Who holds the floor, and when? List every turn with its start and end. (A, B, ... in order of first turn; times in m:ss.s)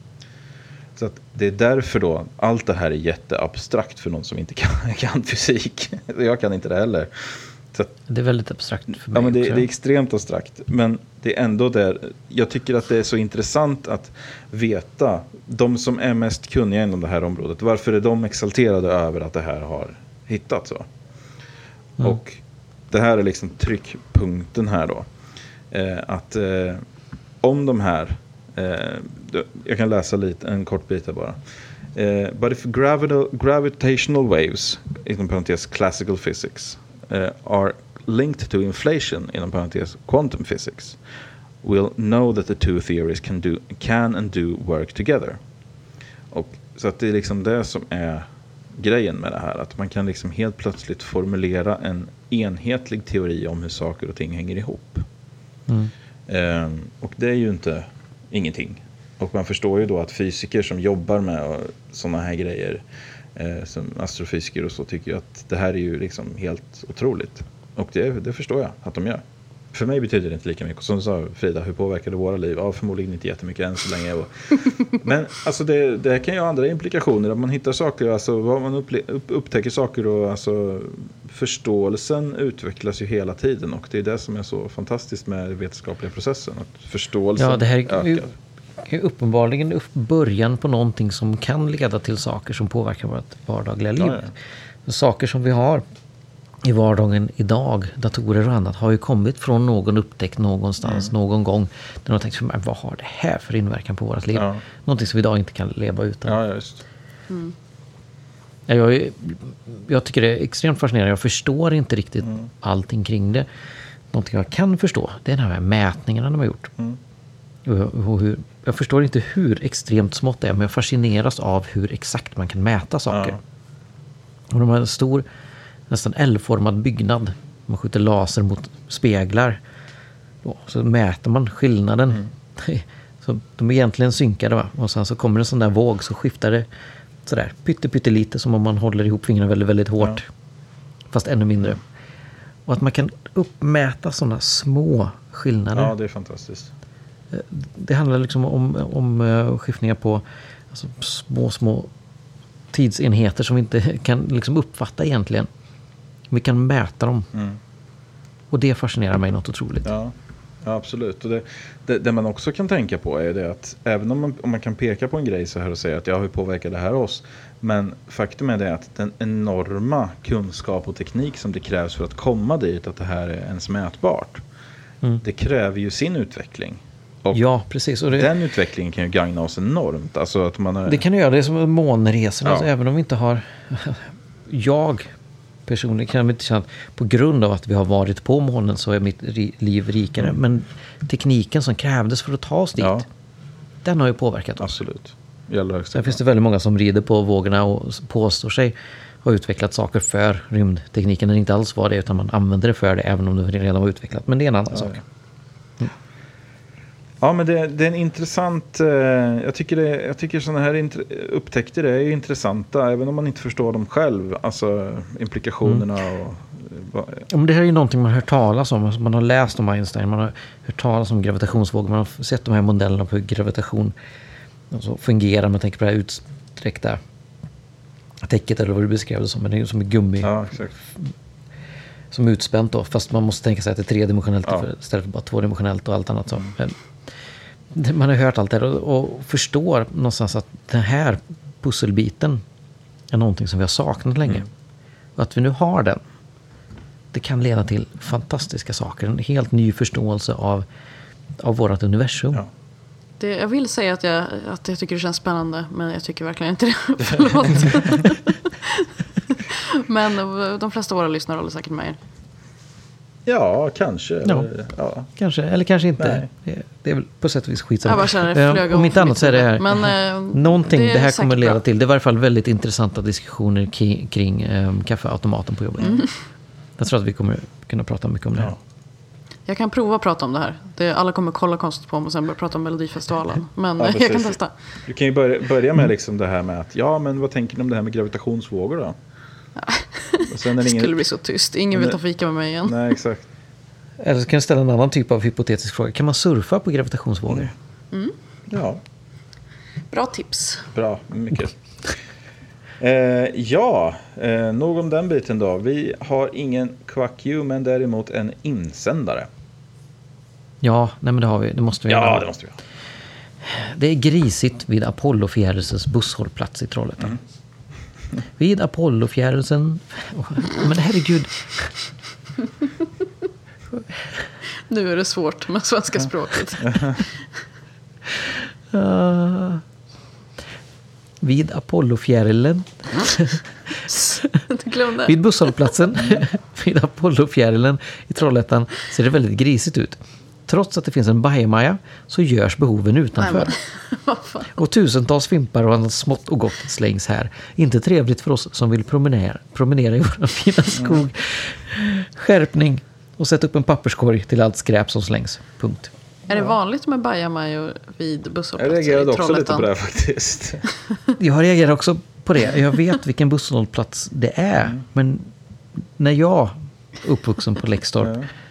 0:01.0-0:07.9 A
0:08.1-0:09.7 B
0:09.1-0:20.9 A
0:22.0-0:25.1 A
0:25.7-0:26.8 A
0:27.4-0:31.4 A
0:31.9-0:41.0 A
0:41.6-0:45.4 A
0:46.3-0:55.1 A
0:56.3-1:02.8 A
1:03.4-1:28.3 A
1:27.4-1:28.3 B
1:28.8-1:34.3 B
1:34.0-1:34.3 A
1:34.9-1:35.8 B
1:36.6-1:46.4 B
1:40.8-1:41.1 A
1:44.3-1:44.6 A
1:46.3-1:46.8 A
1:48.7-1:53.5 B
1:54.1-1:56.7 B
1:57.7-2:03.4 B
2:03.1-2:03.4 A
2:04.5-2:05.2 B
2:05.9-2:09.6 B
2:10.4-2:16.7 B
2:17.3-2:20.3 B
2:21.1-2:21.8 B
2:22.7-2:25.9 B
2:25.7-2:26.7 A
2:27.3-2:31.9 B
2:32.7-2:35.5 B
2:36.3-2:37.3 B
2:37.3-2:37.6 A
2:38.5-2:39.9 B
2:39.8-2:54.4 A
2:55.2-2:57.4 A
2:57.3-2:58.3 B
2:58.1-3:01.0 A
3:00.9-3:05.1 B
3:05.7-3:13.0 B
3:12.8-3:13.1 A
3:13.8-3:14.8 B
3:14.6-3:16.2 A
3:15.9-3:25.0 B
3:24.7-3:25.0 A
3:27.2-3:37.3 A
3:37.3-3:43.9 B
3:44.7-3:47.0 B
3:48.2-3:51.1 B
3:50.2-3:50.7 A
3:52.1-3:56.8 B
3:57.7-4:02.4 B
4:03.1-4:04.5 B
4:05.2-4:06.0 B
4:07.1-4:10.6 B
4:11.4-4:12.4 B
4:13.2-4:22.0 C
4:23.3-4:25.1 A
4:25.2-4:36.1 B
4:26.0-4:26.3 A
4:27.8-4:31.6 C
4:35.8-4:36.1 A
4:36.8-4:38.5 B
4:39.5-4:44.5 C
4:43.8-4:49.0 A
4:49.6-4:52.9 C
4:50.3-4:51.0 A
4:51.7-4:52.0 A
4:52.6-4:53.3 A
4:54.0-4:57.5 B
4:58.5-4:58.8 A
4:59.9-5:00.7 C
5:00.7-5:01.5 A
5:02.8-5:09.3 A
5:10.6-5:12.3 B
5:11.9-5:12.6 A
5:13.4-5:17.2 B
5:18.4-5:21.7 B
5:24.6-5:27.1 C
5:26.6-5:27.0 A
5:28.7-5:29.6 B
5:31.2-5:34.4 B
5:33.9-5:35.6 C
5:35.1-5:43.5 B
5:43.2-5:44.5 C
5:44.6-5:55.9 B
5:50.8-5:51.0 A
5:56.3-5:59.7 C
5:58.6-6:00.6 A
6:01.2-6:05.3 B
6:06.0-6:08.2 B
6:08.0-6:08.3 A